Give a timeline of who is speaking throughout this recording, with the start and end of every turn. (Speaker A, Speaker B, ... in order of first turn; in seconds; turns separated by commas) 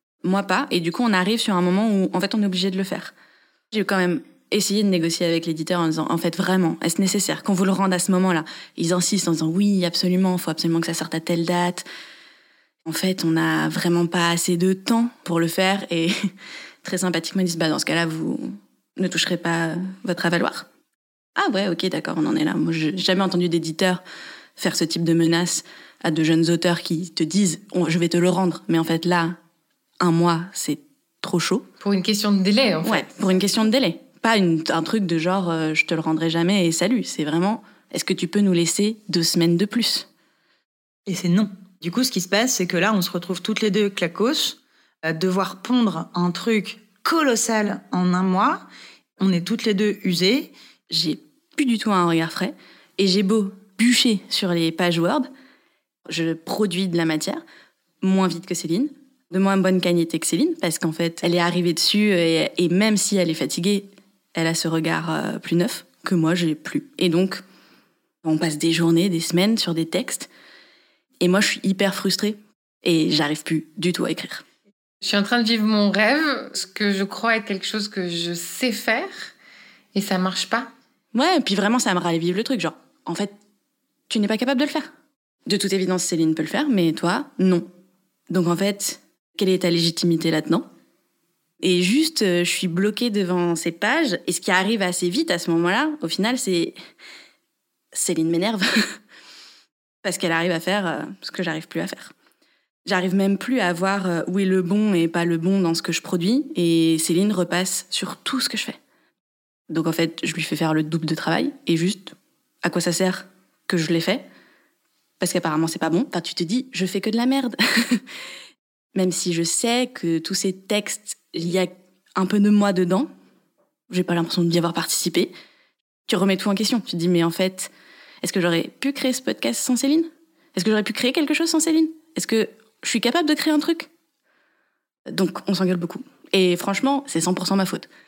Speaker A: 0.2-3.1, Speaker A: 3.7-11.8, Speaker A: 12.8-16.3, Speaker A: 16.8-20.7, Speaker A: 21.4-24.0, Speaker A: 24.6-29.4, Speaker A: 30.0-31.6, Speaker B: 31.8-33.1, Speaker A: 32.8-40.1, Speaker C: 41.1-48.7, Speaker C: 49.2-50.5, Speaker A: 50.9-55.3, Speaker A: 56.1-57.4, Speaker A: 58.0-67.4, Speaker A: 68.2-70.3, Speaker A: 71.2-74.4, Speaker B: 75.0-79.3, Speaker B: 79.9-80.7, Speaker A: 81.1-83.3, Speaker A: 84.1-84.9, Speaker A: 85.5-87.7, Speaker A: 88.3-90.7, Speaker A: 91.6-96.8, Speaker A: 97.9-99.0, Speaker A: 100.0-102.1, Speaker A: 102.8-108.8, Speaker A: 109.7-114.2, Speaker A: 115.2-118.1, Speaker A: 118.9-123.1, Speaker A: 123.9-125.3, Speaker A: 126.1-127.7, Speaker A: 128.2-133.9, Speaker A: 135.1-137.9